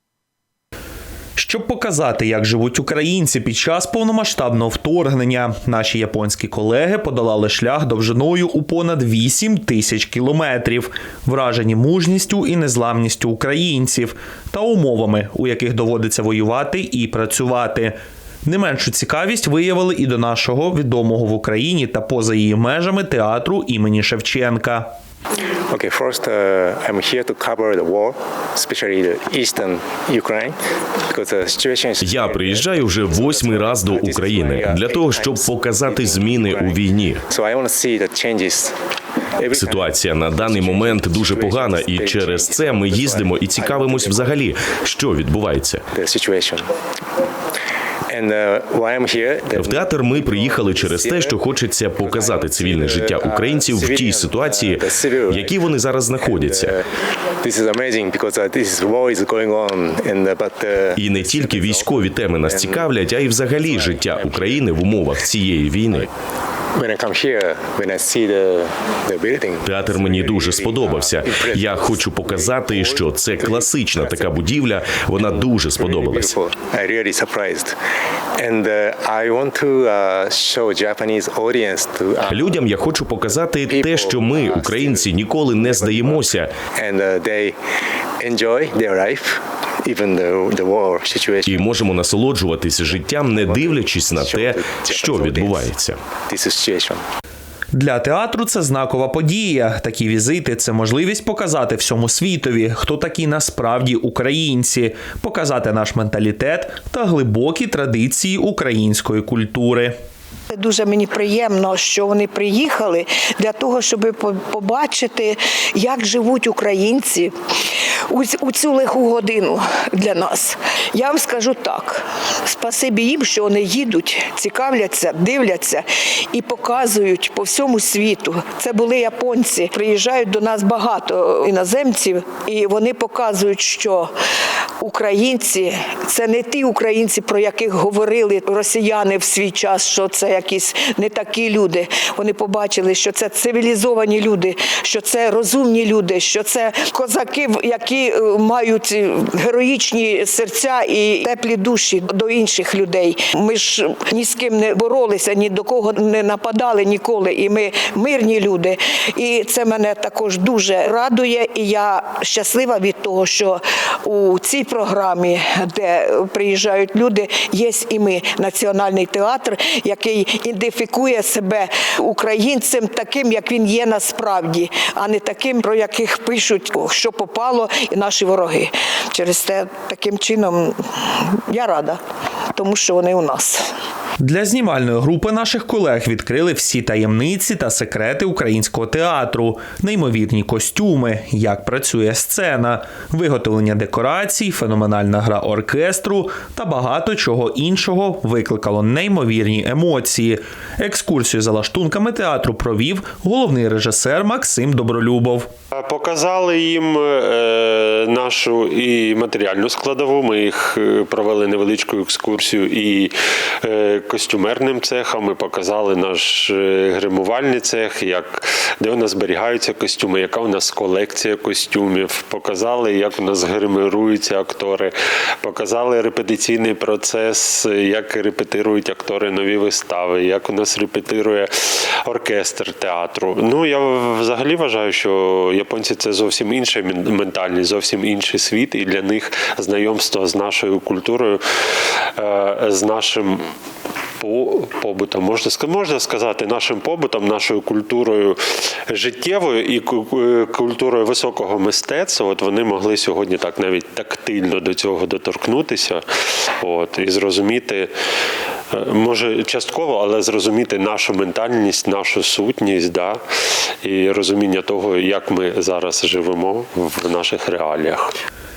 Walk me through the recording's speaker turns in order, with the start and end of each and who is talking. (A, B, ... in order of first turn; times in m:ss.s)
0:01.4-0:24.9 A
0:25.7-0:30.6 B
0:31.1-0:38.7 B
0:32.0-0:37.2 C
0:39.4-0:44.4 B
0:39.5-0:45.8 C
0:45.9-0:46.7 B
0:48.1-0:51.4 B
0:49.5-0:56.8 C
0:52.0-0:55.6 B
0:56.2-1:02.9 B
1:01.0-1:06.1 C
1:03.6-1:04.7 B
1:06.8-1:14.4 B
1:09.6-1:16.4 C
1:15.8-1:17.8 B
1:18.4-1:22.6 B
1:22.3-1:26.5 C
1:23.7-1:27.6 B
1:28.2-1:31.7 B
1:31.5-1:36.0 C
1:33.3-1:35.7 B
1:36.3-1:37.0 B
1:37.7-1:49.9 A
1:50.5-1:57.3 D
1:58.1-2:14.1 D
2:14.8-3:02.0 D
3:02.5-3:03.7 D
3:04.2-3:25.5 A
3:25.8-4:01.4 E
4:02.2-4:03.5 E
4:04.2-4:16.0 E
4:16.6-4:17.9 E
4:18.7-4:23.2 E
4:23.8-4:28.1 E